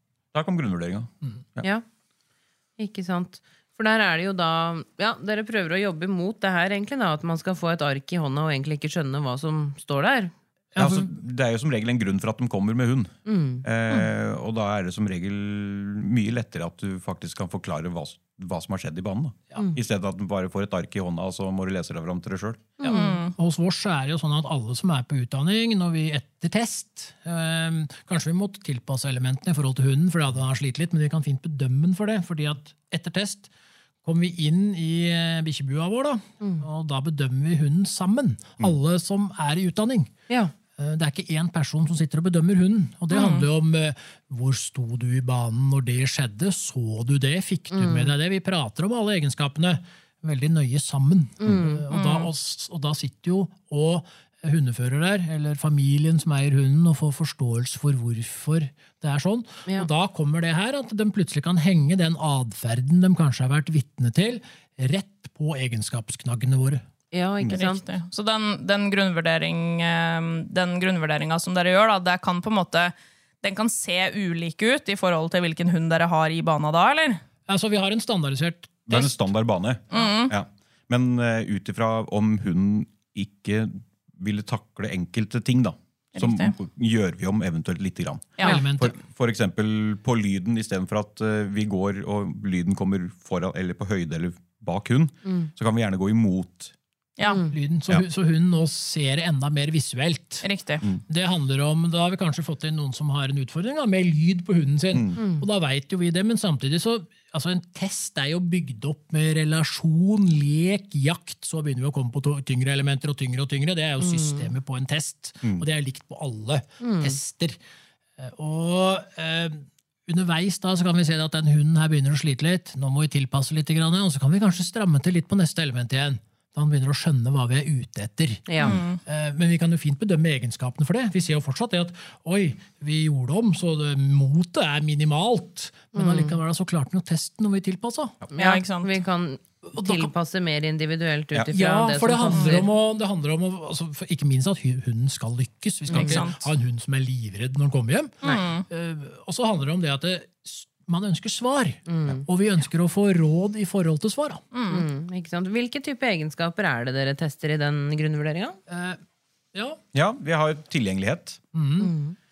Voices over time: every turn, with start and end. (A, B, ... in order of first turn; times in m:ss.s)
0:00.3-0:01.7 A
0:02.8-0:10.3 B
0:10.8-0:11.1 C
0:10.8-0:22.7 A
0:13.3-0:13.7 B
0:22.8-0:23.2 B
0:22.8-0:33.5 C
0:22.9-0:23.3 D
0:34.0-0:40.1 C
0:40.8-1:06.8 C
0:43.1-0:43.5 D
0:47.7-0:48.1 B
0:51.4-0:51.9 B
0:51.9-0:52.3 D
1:07.1-1:07.8 B
1:07.5-1:17.2 D
1:17.5-1:19.1 C
1:18.9-1:36.7 A
1:19.9-1:20.3 D
1:26.2-1:26.5 D
1:28.4-1:29.0 C
1:37.2-1:37.5 B
1:37.5-1:40.5 C
1:40.4-1:40.8 D
1:41.1-1:57.6 C
1:44.9-1:45.2 A
1:45.2-1:45.4 B
1:54.0-1:54.5 B
1:56.8-1:57.2 B
1:58.2-2:18.2 C
2:08.5-2:08.8 B
2:08.6-2:09.0 D
2:15.9-2:16.4 B
2:18.3-2:22.7 B
2:18.4-2:18.9 D
2:19.7-2:20.1 C
2:21.5-2:34.4 C
2:22.3-2:22.6 D
2:25.9-2:26.2 B
2:25.9-2:26.4 D
2:28.2-2:28.6 D
2:31.9-2:32.2 B
2:34.5-2:34.8 D
2:34.7-2:38.6 B
2:38.7-2:39.0 C
2:39.5-2:39.8 C
2:39.9-2:41.4 A
2:41.5-2:41.9 C
2:41.8-2:42.2 B